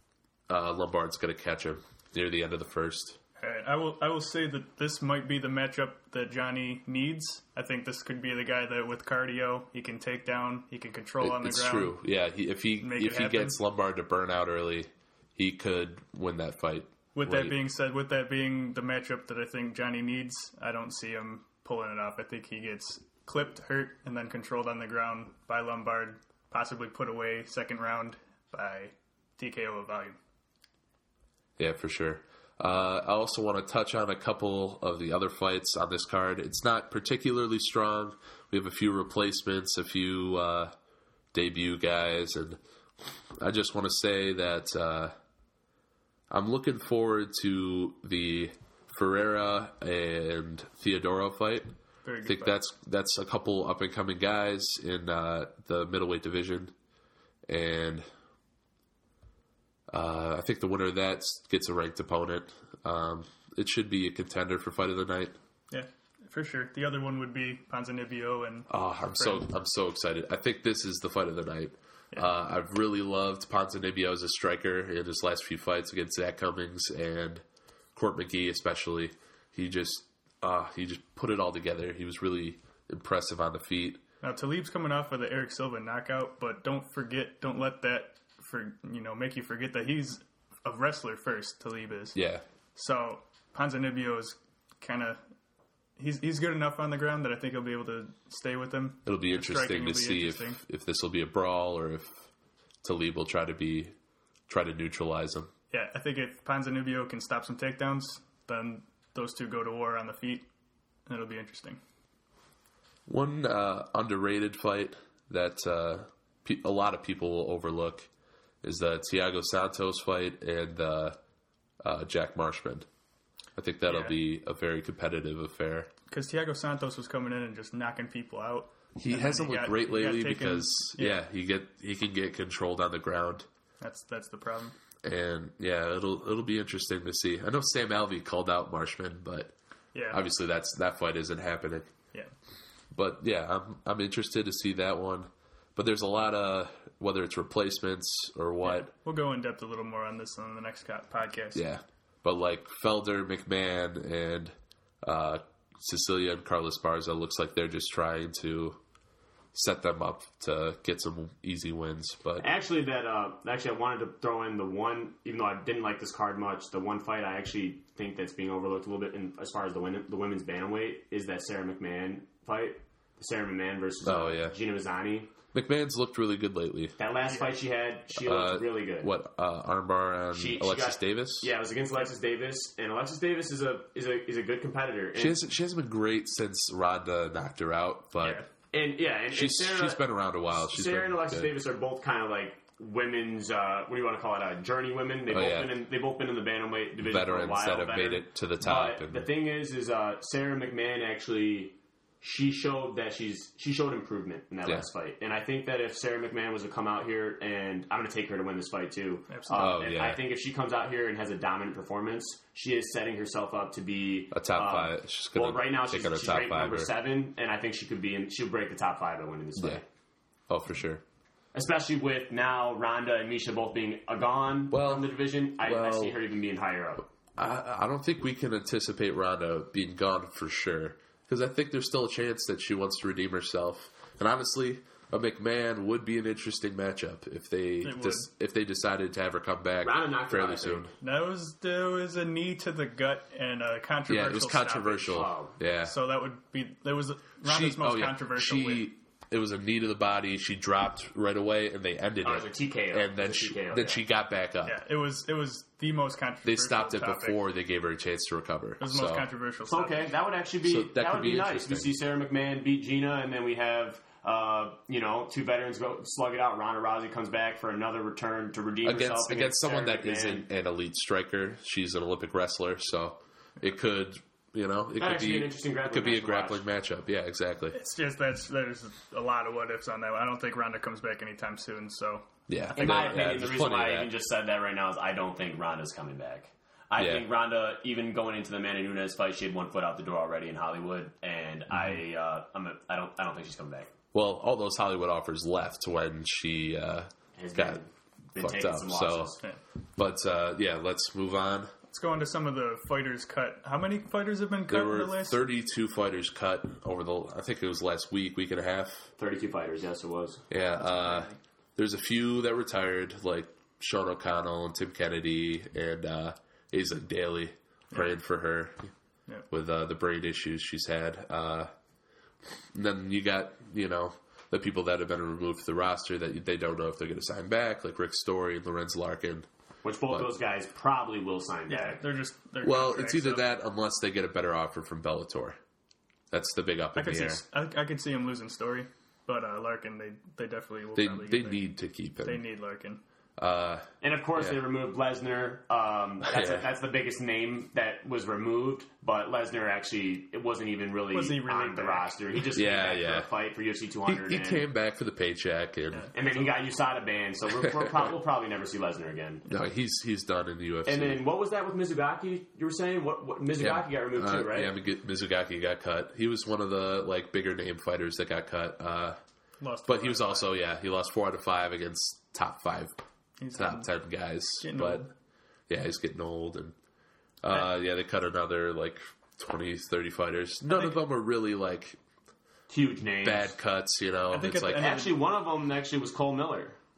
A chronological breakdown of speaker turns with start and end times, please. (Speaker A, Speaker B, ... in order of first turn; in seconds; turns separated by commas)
Speaker A: 0.5-3.2, Speaker B: 3.4-12.0, Speaker A: 11.2-17.6, Speaker B: 12.8-13.6, Speaker B: 17.1-30.2, Speaker A: 31.6-40.7, Speaker A: 41.3-42.6, Speaker A: 43.4-45.1, Speaker A: 46.3-51.7, Speaker B: 52.0-52.5, Speaker A: 52.2-56.7, Speaker A: 57.5-58.0, Speaker A: 59.9-65.3, Speaker B: 65.7-69.4, Speaker A: 68.7-77.4, Speaker A: 77.9-84.0, Speaker B: 84.2-92.2, Speaker A: 92.1-92.4, Speaker B: 92.7-95.2, Speaker B: 96.0-100.6, Speaker A: 99.0-102.3, Speaker A: 102.8-103.9, Speaker A: 104.5-105.5, Speaker B: 105.7-110.4, Speaker B: 111.1-111.8, Speaker A: 113.1-118.1, Speaker A: 118.6-121.2, Speaker A: 121.8-122.8, Speaker A: 123.5-125.9, Speaker B: 123.9-124.2, Speaker B: 126.1-131.2, Speaker A: 128.9-133.5, Speaker B: 133.8-134.7, Speaker A: 135.0-139.5, Speaker B: 139.9-140.2, Speaker A: 140.1-141.9, Speaker A: 142.9-148.9, Speaker B: 148.6-151.6, Speaker A: 151.5-158.8, Speaker A: 159.5-162.4, Speaker C: 162.4-175.3, Speaker A: 174.0-174.5, Speaker A: 175.5-176.9, Speaker C: 177.0-179.1, Speaker A: 178.1-181.5, Speaker C: 180.3-185.4, Speaker A: 185.1-188.4, Speaker C: 188.7-219.8, Speaker A: 189.3-191.5, Speaker A: 195.3-195.7, Speaker A: 197.0-199.3, Speaker B: 209.3-209.7, Speaker A: 209.5-210.2, Speaker A: 214.3-216.9, Speaker A: 219.6-219.8, Speaker A: 220.5-221.0, Speaker C: 221.5-227.1, Speaker A: 224.7-226.2, Speaker A: 227.3-240.9, Speaker B: 237.8-238.3, Speaker C: 239.8-240.9, Speaker B: 241.0-245.2, Speaker A: 244.1-245.9, Speaker C: 245.1-245.6, Speaker B: 245.8-248.8, Speaker A: 247.4-254.8, Speaker C: 252.2-254.0, Speaker B: 254.6-257.4, Speaker A: 256.4-259.2, Speaker B: 258.8-260.1, Speaker C: 259.6-270.5, Speaker A: 260.6-261.9, Speaker A: 268.8-277.8, Speaker C: 275.0-276.6, Speaker B: 277.7-283.1, Speaker A: 282.5-284.1, Speaker C: 282.8-293.9, Speaker A: 287.0-287.2, Speaker A: 294.1-297.8, Speaker C: 297.4-299.4, Speaker A: 298.4-299.3, Speaker A: 300.0-301.7, Speaker B: 301.9-305.4, Speaker A: 304.7-309.1, Speaker C: 309.2-310.5, Speaker A: 310.5-318.9, Speaker B: 310.8-311.4, Speaker B: 317.9-318.2, Speaker A: 319.5-321.7, Speaker A: 322.7-329.5, Speaker C: 329.8-332.0, Speaker B: 331.7-333.5, Speaker A: 332.6-335.6, Speaker A: 336.3-337.4, Speaker B: 336.9-341.6, Speaker A: 340.9-342.4, Speaker B: 342.2-343.0, Speaker A: 343.4-344.6, Speaker C: 344.0-354.6, Speaker A: 346.2-346.7, Speaker B: 351.1-352.1, Speaker A: 352.5-353.3, Speaker A: 354.1-356.1, Speaker B: 355.9-356.5, Speaker C: 356.1-359.5, Speaker A: 357.7-358.0, Speaker A: 359.5-361.2, Speaker C: 360.9-364.7, Speaker A: 363.6-369.2, Speaker B: 369.6-370.5, Speaker A: 369.9-373.0, Speaker B: 373.4-373.9, Speaker A: 373.5-375.1, Speaker B: 374.6-375.1, Speaker A: 375.7-376.7, Speaker A: 377.4-382.0, Speaker B: 380.7-381.0, Speaker C: 382.7-383.5, Speaker A: 383.2-384.9, Speaker B: 384.3-385.1, Speaker C: 384.7-386.8